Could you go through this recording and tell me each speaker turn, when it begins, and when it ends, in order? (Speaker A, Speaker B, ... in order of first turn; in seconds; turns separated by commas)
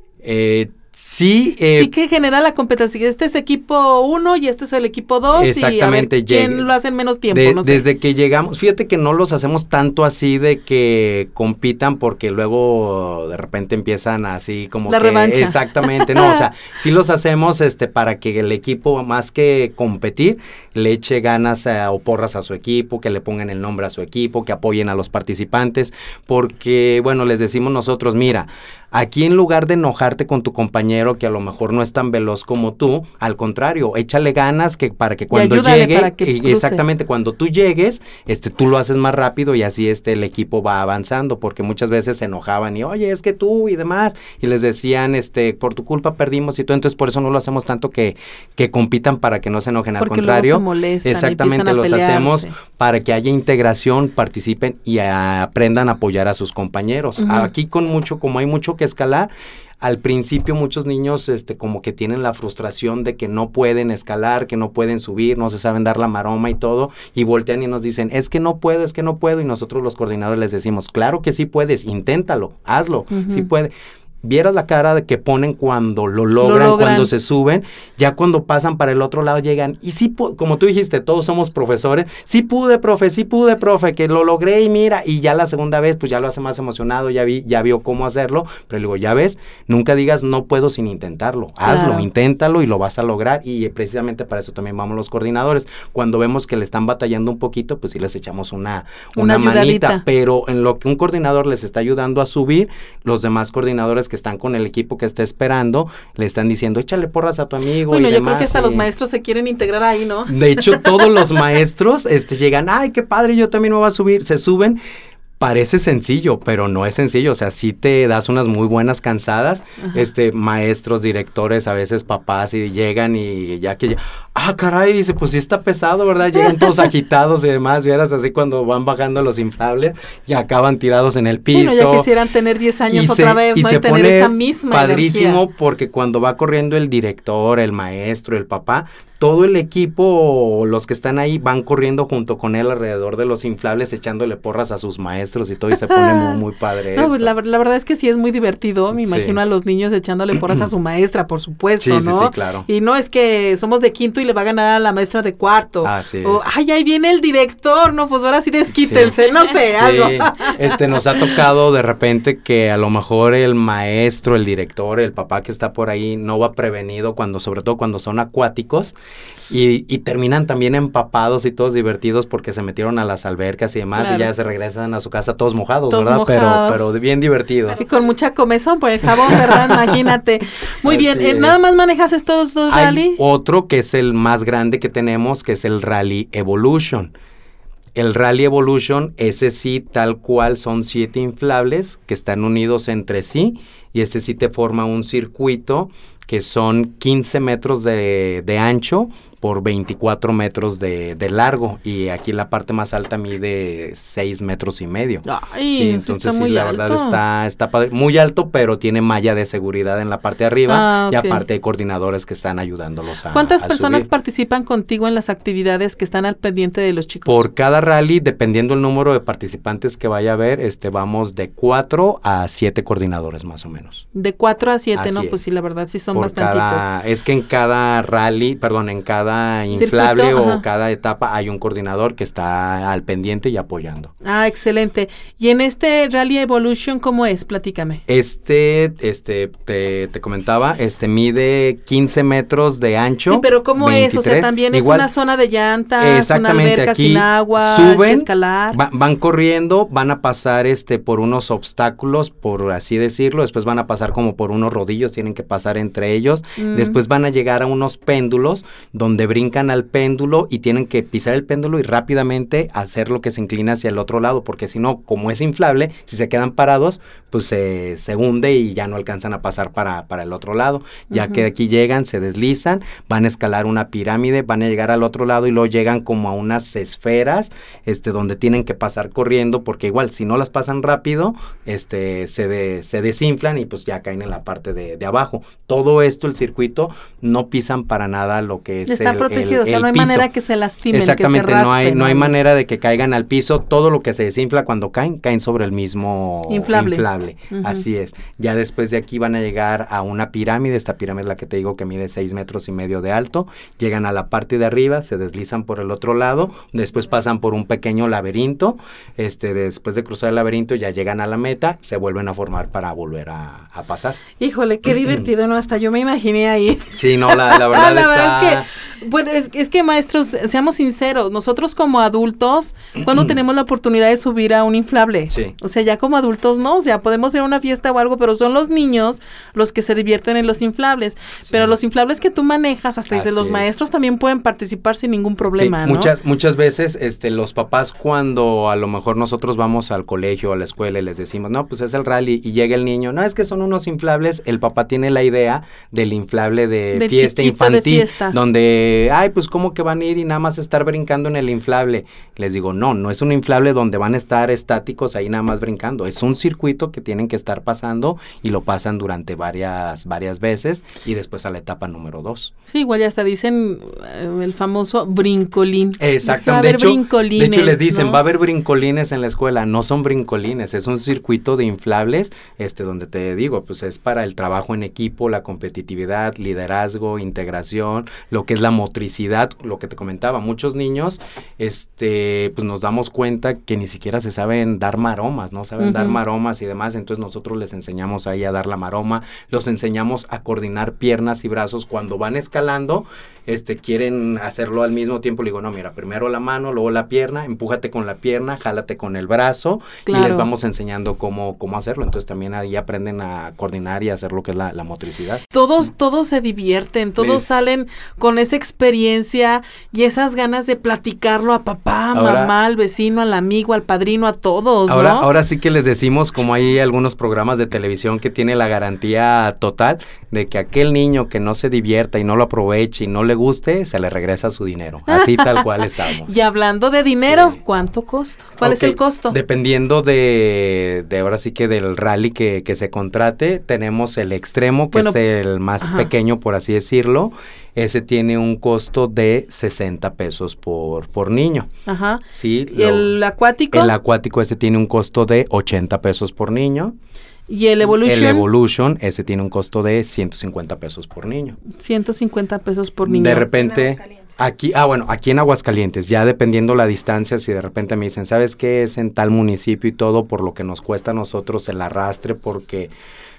Speaker A: 0.2-1.9, Speaker B: 1.7-7.8, Speaker A: 5.3-6.7, Speaker A: 7.3-59.3, Speaker B: 14.9-16.4, Speaker B: 35.3-36.8, Speaker B: 50.0-52.5, Speaker B: 57.2-57.5, Speaker A: 59.8-108.9, Speaker B: 73.1-73.5, Speaker B: 76.4-77.1, Speaker B: 91.6-92.1, Speaker B: 99.2-100.0, Speaker B: 107.9-111.1, Speaker A: 110.2-114.8, Speaker A: 115.4-132.1, Speaker B: 131.5-135.4, Speaker A: 132.9-147.3, Speaker B: 145.8-146.4, Speaker B: 146.9-160.6, Speaker A: 149.0-149.4, Speaker A: 151.8-152.7, Speaker A: 155.8-156.5, Speaker A: 158.8-168.9, Speaker A: 169.5-177.8, Speaker B: 174.0-174.3, Speaker B: 175.9-176.9, Speaker B: 177.8-183.2, Speaker A: 180.8-181.6, Speaker A: 182.7-187.1, Speaker A: 187.9-214.1, Speaker B: 205.2-207.2, Speaker B: 210.7-211.4, Speaker B: 213.3-217.4, Speaker A: 217.2-224.0, Speaker B: 224.1-226.8, Speaker A: 224.9-225.4, Speaker A: 226.1-234.1, Speaker B: 229.7-230.6, Speaker B: 234.2-238.0, Speaker A: 238.1-245.1, Speaker B: 243.2-248.8, Speaker A: 246.0-290.3, Speaker B: 256.6-257.0, Speaker B: 271.1-271.4, Speaker B: 288.9-292.3, Speaker A: 290.9-314.2, Speaker B: 296.5-297.8, Speaker B: 314.4-336.1, Speaker A: 316.9-318.7, Speaker A: 331.4-331.7, Speaker A: 333.1-333.7, Speaker A: 335.5-362.5, Speaker B: 346.9-348.4, Speaker B: 362.7-368.2, Speaker A: 366.0-405.4, Speaker B: 385.8-386.2, Speaker B: 400.1-400.5, Speaker B: 405.5-415.3, Speaker A: 407.2-407.8, Speaker A: 412.1-412.5, Speaker A: 414.9-426.3, Speaker B: 425.1-429.4, Speaker A: 427.2-427.6, Speaker A: 428.6-441.7, Speaker B: 435.8-436.1, Speaker B: 441.9-443.9, Speaker A: 442.3-443.2, Speaker A: 443.7-446.9, Speaker B: 447.5-448.4, Speaker A: 447.8-451.6, Speaker B: 451.8-453.5, Speaker A: 453.0-462.9